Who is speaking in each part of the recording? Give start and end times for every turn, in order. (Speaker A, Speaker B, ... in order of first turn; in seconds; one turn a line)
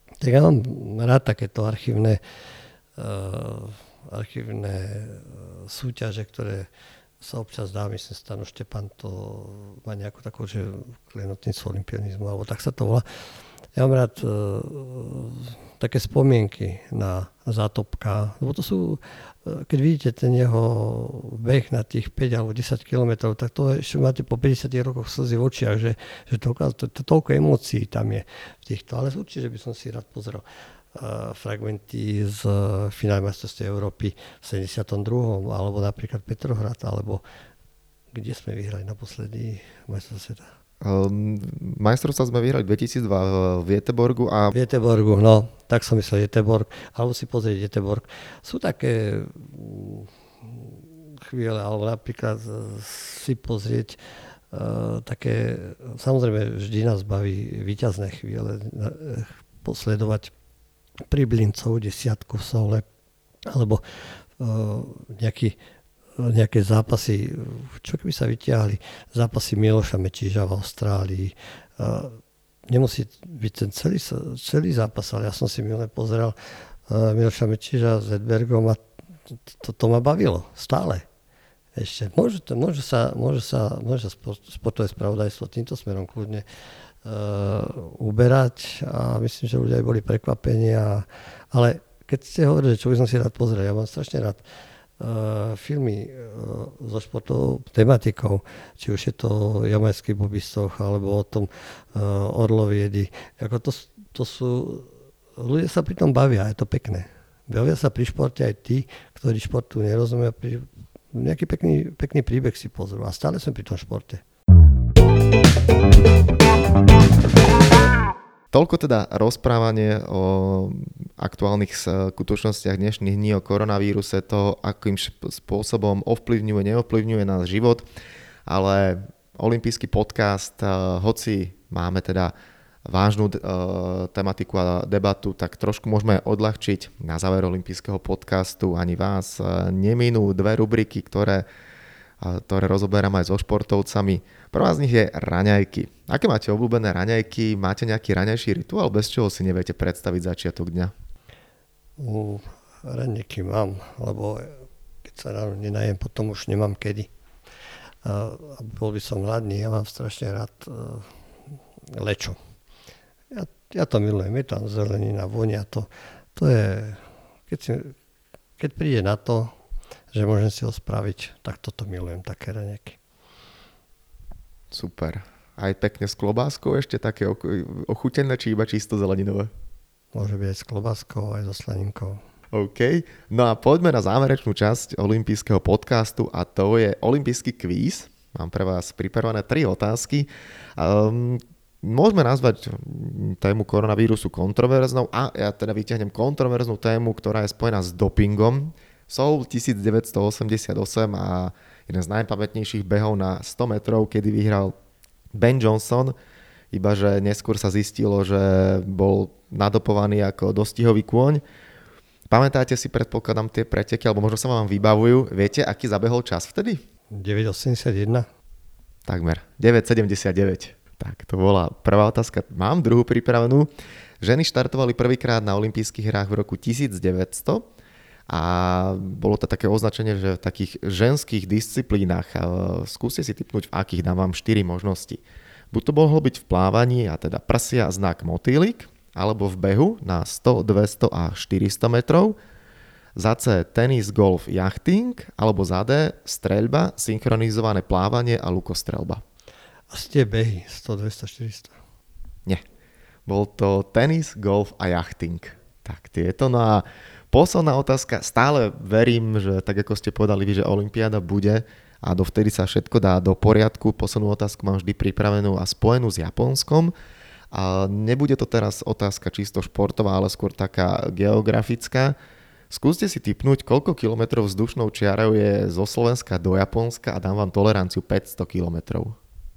Speaker A: 0.2-2.2
Speaker A: 3.0-6.7
Speaker A: 7.2-13.1
Speaker A: 13.8-30.4
Speaker A: 30.9-37.2
Speaker A: 38.1-40.5
Speaker B: 40.8-44.5
Speaker A: 44.5-54.0
Speaker A: 54.5-60.3
Speaker A: 61.1-62.9
Speaker A: 63.5-63.8
Speaker A: 64.4-65.6
Speaker A: 66.2-76.3
Speaker A: 76.9-81.1
Speaker A: 81.8-86.4
Speaker A: 87.0-94.4
Speaker A: 95.0-114.2
Speaker B: 118.5-127.8
Speaker B: 128.5-132.3
Speaker B: 132.9-141.4
Speaker B: 142.2-150.9
Speaker A: 152.0-157.1
Speaker A: 158.0-161.1
Speaker A: 161.9-162.4
Speaker A: 163.3-168.0
Speaker A: 168.6-169.5
Speaker A: 170.1-173.0
Speaker B: 174.7-179.5
Speaker A: 180.1-182.2
Speaker B: 182.5-204.7
Speaker B: 205.3-206.2
Speaker B: 206.7-211.4
Speaker B: 212.3-216.8
Speaker A: 217.1-218.3
Speaker B: 219.1-223.7
Speaker B: 224.2-227.7
Speaker B: 228.3-242.3
Speaker B: 243.2-249.2
Speaker A: 249.9-251.8
Speaker B: 253.3-266.9
Speaker B: 267.5-272.1
Speaker B: 272.7-279.2